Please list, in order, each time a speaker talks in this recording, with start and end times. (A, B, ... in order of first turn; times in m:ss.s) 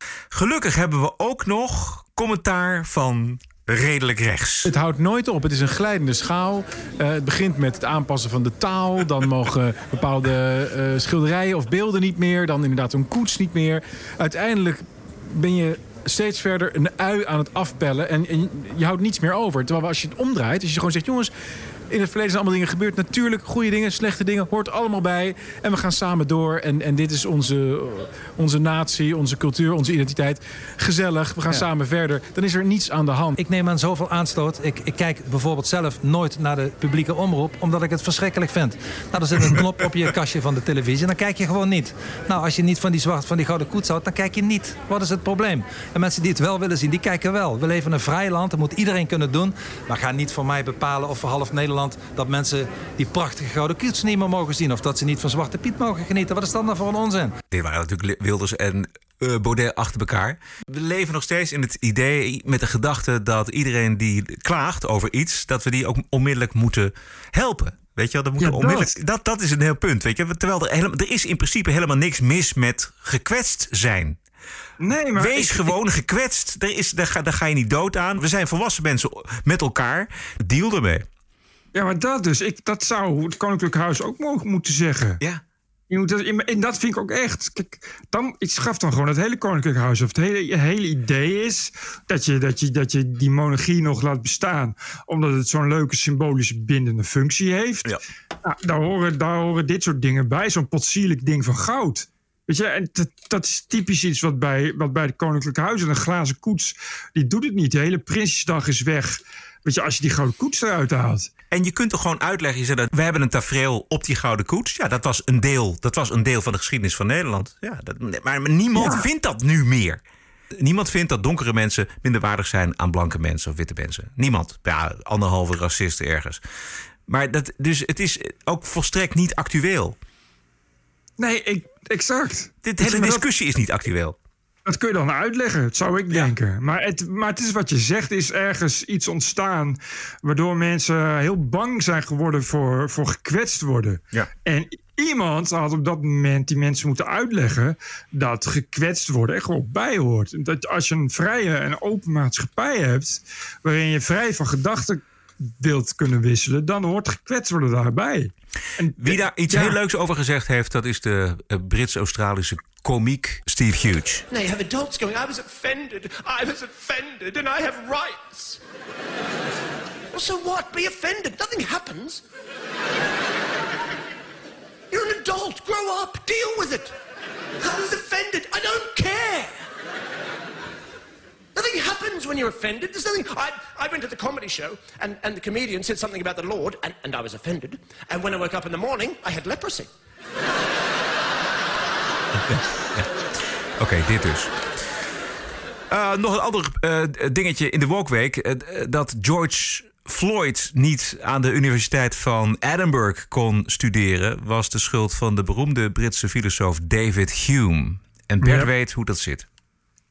0:00.3-0:04.7 A
0:04.6-0:21.3 B
0:21.9-0:33.3 B
0:33.4-0:57.3 C
0:57.5-1:14.2 A
1:08.4-1:08.9 D
1:14.8-1:15.7 D
1:15.2-1:21.0 A
1:21.7-1:25.2 D
1:25.9-1:37.9 D
1:38.4-1:51.3 D
1:51.5-2:00.0 A
1:58.8-1:59.0 D
2:00.5-2:06.4 A
2:07.1-2:10.0 A
2:11.2-2:13.2 D
2:12.6-2:14.2 A
2:14.6-2:39.8 D
2:39.0-2:44.2 A
2:44.3-2:48.6 E
2:50.1-2:52.2 E
2:54.9-2:56.9 E
2:57.6-2:59.6 E
3:01.6-3:09.9 E
3:12.5-3:13.1 A
3:13.8-3:14.5 A
3:15.9-3:29.4 A
3:28.4-3:28.7 D